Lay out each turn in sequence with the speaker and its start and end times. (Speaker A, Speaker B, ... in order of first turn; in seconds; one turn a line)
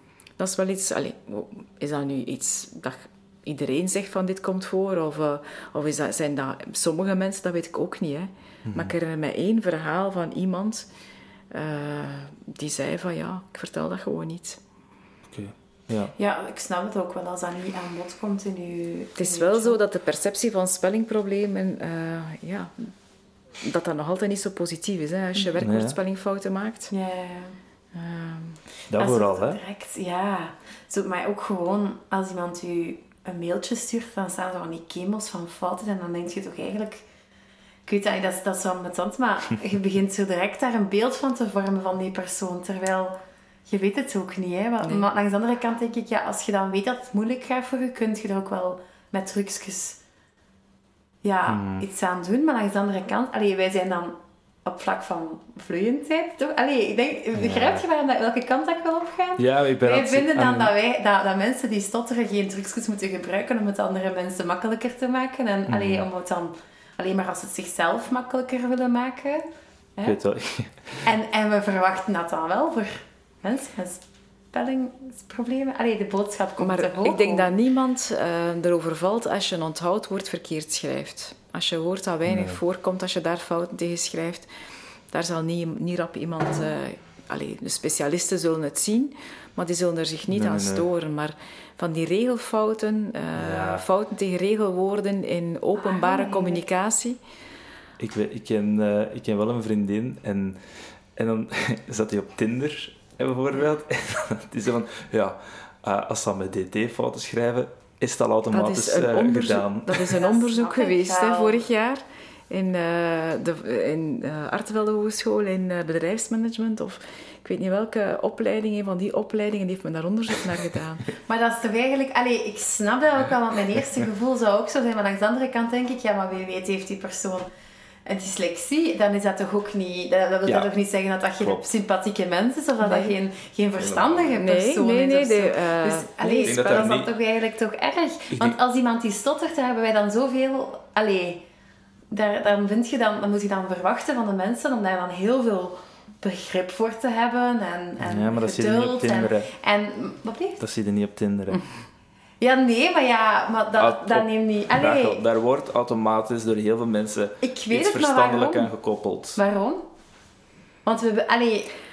Speaker A: 0.4-10.9
Speaker B: 8.7-8.9
Speaker A: 11.5-14.6
Speaker B: 15.3-16.1
Speaker C: 16.2-19.8
Speaker A: 19.2-22.9
Speaker A: 23.6-26.9
Speaker B: 25.6-26.0
Speaker C: 26.9-27.6
Speaker A: 27.9-28.6
Speaker B: 28.9-29.6
Speaker C: 29.0-37.0
Speaker C: 37.9-50.0
Speaker A: 44.8-45.1
Speaker C: 51.2-70.2
Speaker B: 51.5-51.9
Speaker B: 57.3-57.9
Speaker B: 59.4-60.7
Speaker B: 65.7-66.1
Speaker B: 70.0-71.1
Speaker C: 71.0-77.5
Speaker A: 76.6-84.5
Speaker B: 82.2-82.6
Speaker A: 85.1-97.2
Speaker B: 90.3-90.9
Speaker B: 93.4-93.8
Speaker C: 95.8-96.7
Speaker B: 98.0-110.2
Speaker A: 108.5-121.1
Speaker C: 110.1-111.7
Speaker C: 121.2-127.5
Speaker C: 128.1-141.4
Speaker A: 132.8-133.2
Speaker B: 133.8-134.3
Speaker A: 134.3-137.0
Speaker B: 136.4-137.1
Speaker B: 138.3-138.6
Speaker C: 142.1-150.6
Speaker B: 148.0-149.5
Speaker B: 150.6-151.6
Speaker C: 152.4-155.2
Speaker B: 153.7-159.4
Speaker C: 157.4-158.7
Speaker C: 159.4-159.8
Speaker C: 160.8-161.7